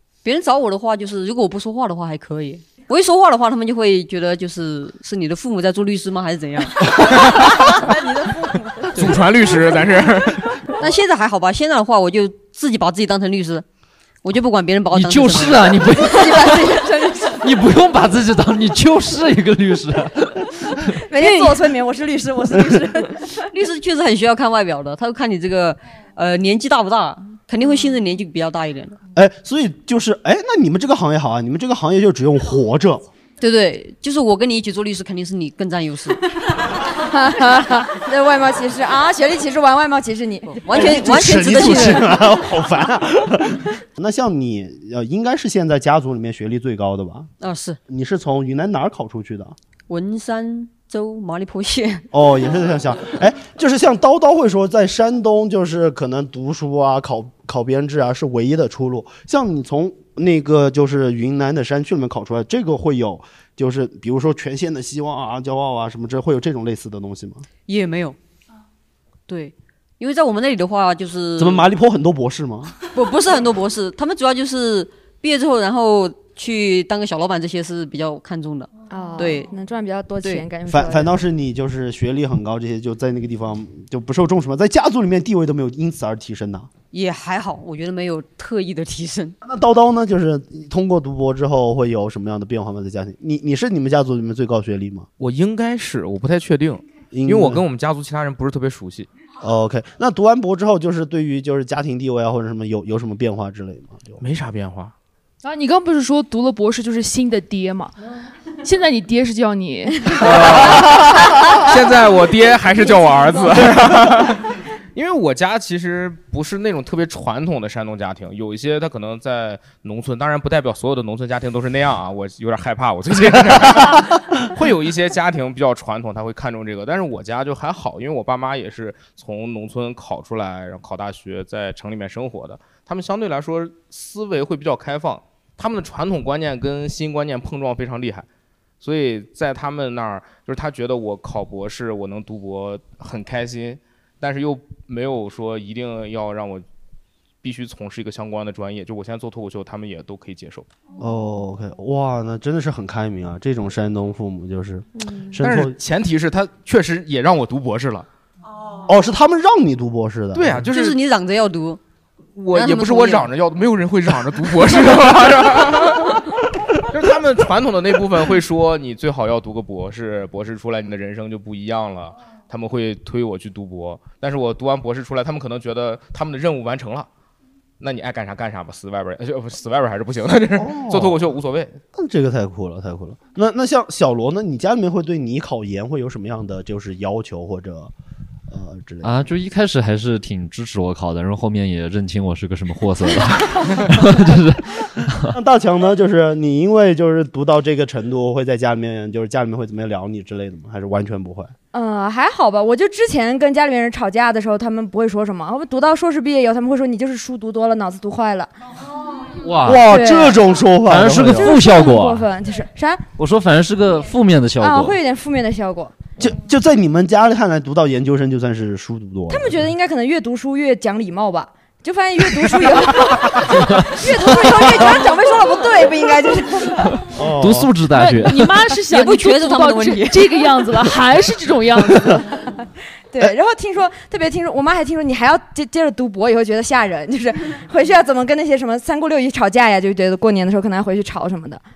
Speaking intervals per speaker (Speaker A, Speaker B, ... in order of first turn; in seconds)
Speaker A: 0.2-8.0, 10.8-13.6, 14.2-16.4, 21.2-21.6, 23.5-29.0, 33.4-36.2, 40.5-42.1, 47.4-47.8, 49.9-52.1, 67.7-68.2, 69.3-71.6, 72.9-79.5, 86.9-89.3, 160.7-161.8, 162.5-163.3, 228.9-230.5
Speaker B: 7.8-8.8, 16.0-17.4, 21.0-23.3, 36.9-40.6, 78.9-81.1, 201.7-208.5, 209.8-210.4, 211.3-213.1, 214.6-215.9, 219.3-227.0, 233.1-241.6
Speaker C: 8.9-10.6, 95.2-99.1, 104.2-104.9, 110.2-138.3, 138.8-146.6, 147.4-150.7, 155.4-158.1, 160.3-161.0, 162.3-177.1, 177.8-181.8
Speaker D: 14.9-20.9, 189.0-195.3, 209.4-209.9, 210.8-212.3, 213.2-215.0, 227.3-228.6
Speaker E: 29.1-33.1, 40.7-47.3, 47.9-49.5, 52.1-67.5, 71.4-72.7, 80.7-86.7, 89.4-95.1, 97.1-97.6, 99.4-104.2, 151.0-155.7, 158.8-160.7, 180.6-181.2, 181.9-187.9, 188.5-189.2, 195.3-201.5, 209.6-211.5, 216.2-219.6, 227.1-227.7
Speaker F: 105.4-107.9, 108.6-110.5, 227.9-232.4